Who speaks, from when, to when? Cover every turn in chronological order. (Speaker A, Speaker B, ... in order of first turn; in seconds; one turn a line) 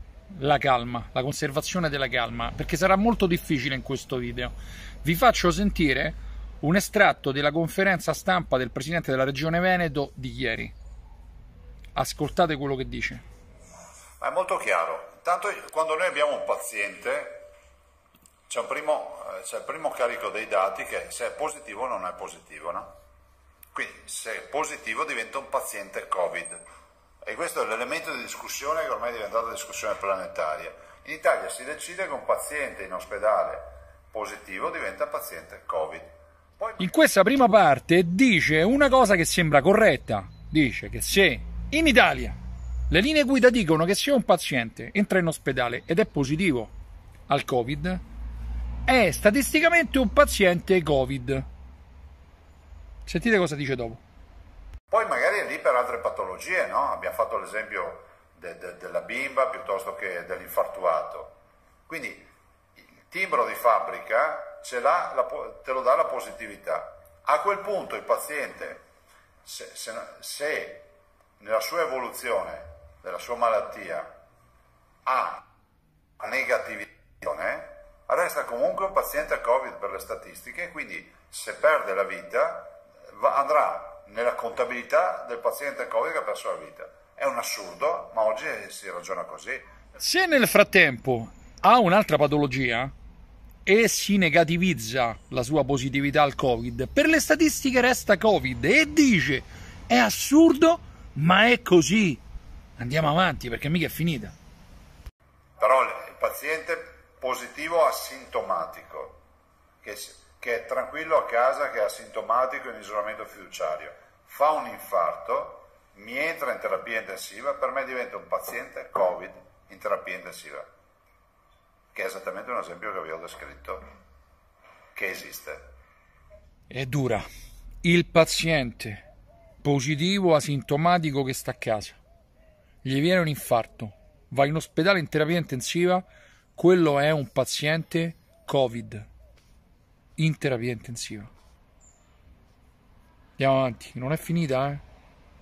Speaker A: 0.4-10.7
Speaker A: 11.9-13.2
Speaker B: 14.2-17.5
Speaker B: 18.5-22.9
Speaker B: 23.7-26.6
Speaker B: 27.2-36.9
Speaker A: 36.8-42.4
Speaker A: 42.9-46.7
Speaker A: 47.3-48.0
Speaker A: 48.9-51.5
Speaker A: 53.1-54.0
Speaker B: 54.9-61.4
Speaker B: 61.9-62.3
Speaker B: 63.0-68.8
Speaker B: 69.5-70.9
Speaker B: 71.4-74.1
Speaker B: 75.0-75.4
Speaker B: 76.2-89.7
Speaker A: 90.0-92.9
Speaker A: 93.7-102.2
Speaker A: 102.8-104.3
Speaker B: 105.6-109.2
Speaker B: 109.8-120.7
Speaker B: 121.9-123.9
Speaker B: 125.0-125.7
Speaker A: 126.7-127.2
Speaker A: 127.8-129.0
Speaker A: 129.6-132.0
Speaker A: 132.8-139.1
Speaker A: 140.2-141.3
Speaker A: 143.4-144.8